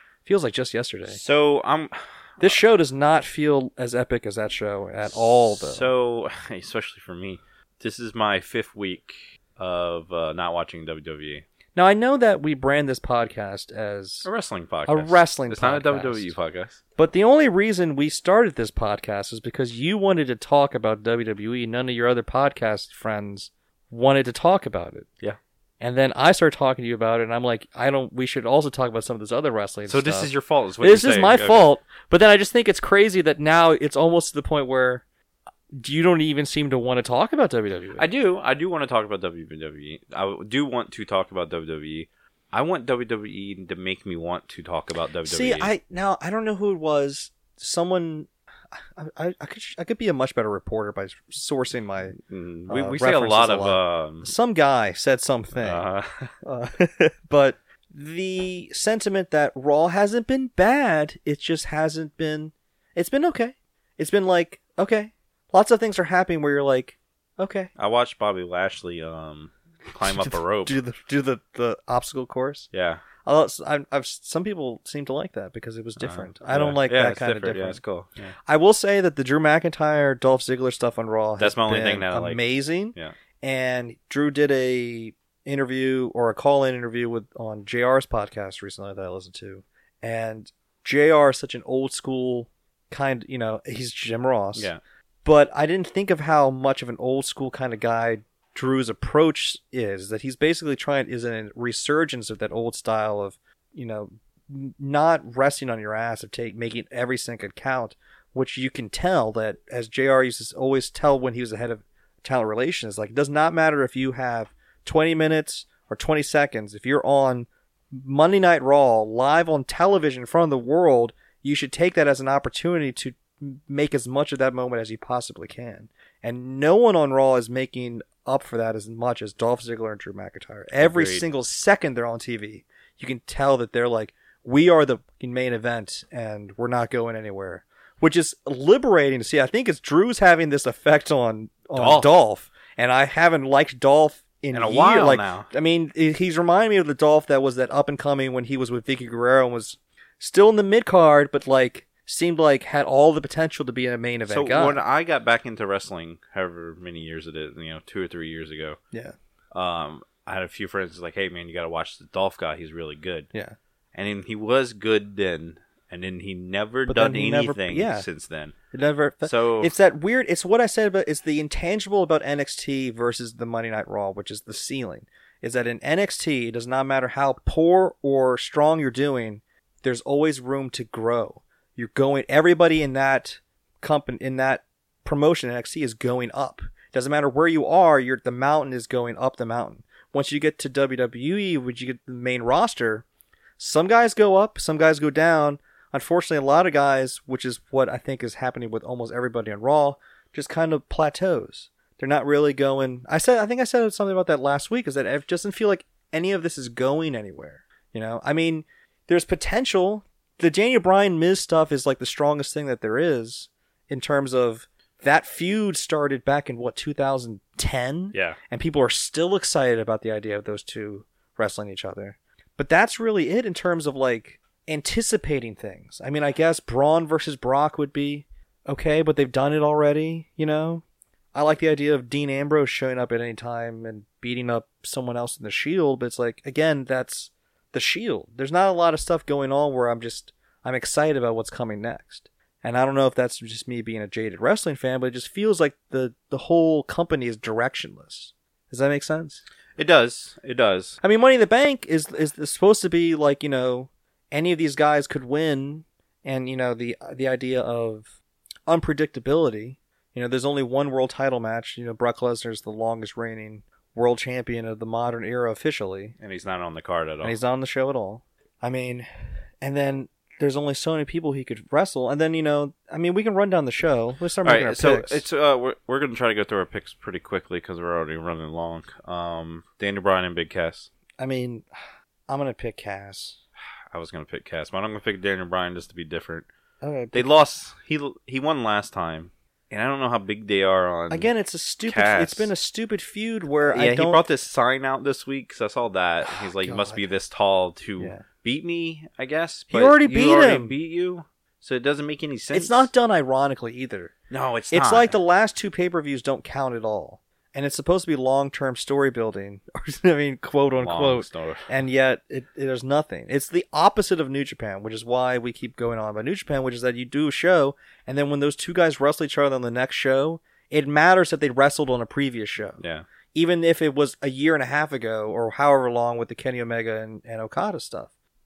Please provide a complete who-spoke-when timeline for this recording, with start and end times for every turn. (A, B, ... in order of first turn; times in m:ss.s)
0:00.2-0:01.2 A
0:01.1-0:02.6 B
0:02.4-0:05.9 A
0:05.0-0:11.4 B
0:11.7-0:14.3 A
0:14.2-0:16.8 B
0:14.9-0:16.3 A
0:17.0-0:25.1 A
0:25.8-0:35.0 A
0:29.9-0:31.6 B
0:35.7-0:38.0 A
0:38.0-0:45.7 B
0:45.2-0:52.2 A
0:52.2-0:54.3 B
0:52.7-0:55.8 A
0:55.6-0:56.3 B
0:56.4-1:07.7 A
1:07.8-1:10.8 B
1:10.0-1:12.7 A
1:12.7-1:13.0 B
1:13.2-1:17.8 A
1:16.0-1:18.3 B
1:18.4-1:34.7 A
1:21.4-1:22.4 B
1:34.5-1:34.8 B
1:35.2-2:34.8 A
2:10.8-2:11.3 B
2:21.7-2:22.1 B
2:24.5-2:25.5 B
2:34.3-2:38.8 B
2:39.5-2:43.3 B
2:43.9-2:48.5 B
2:46.9-2:48.1 A
2:48.7-3:13.0 A
2:49.2-2:49.7 B
3:13.6-4:09.4 A
3:38.1-3:38.4 B
4:09.8-4:11.0 B
4:11.0-4:18.1 A
4:18.7-4:26.2 A
4:26.2-4:27.4 B
4:27.2-4:29.1 A
4:29.6-4:35.2 A
4:34.4-4:40.9 B
4:41.2-4:41.7 A
4:42.3-4:43.4 A
4:43.9-4:46.5 B
4:46.8-4:47.3 A
4:47.1-4:51.3 B
4:51.1-4:54.2 A
4:51.8-4:52.5 B
4:53.7-5:02.9 B
4:56.3-4:57.0 A
4:58.0-4:58.2 A
4:59.7-5:00.7 A
5:02.5-5:04.1 A
5:04.3-5:05.2 B
5:04.7-5:22.8 A
5:10.8-5:11.7 B
5:22.8-5:23.0 B
5:23.3-5:28.1 A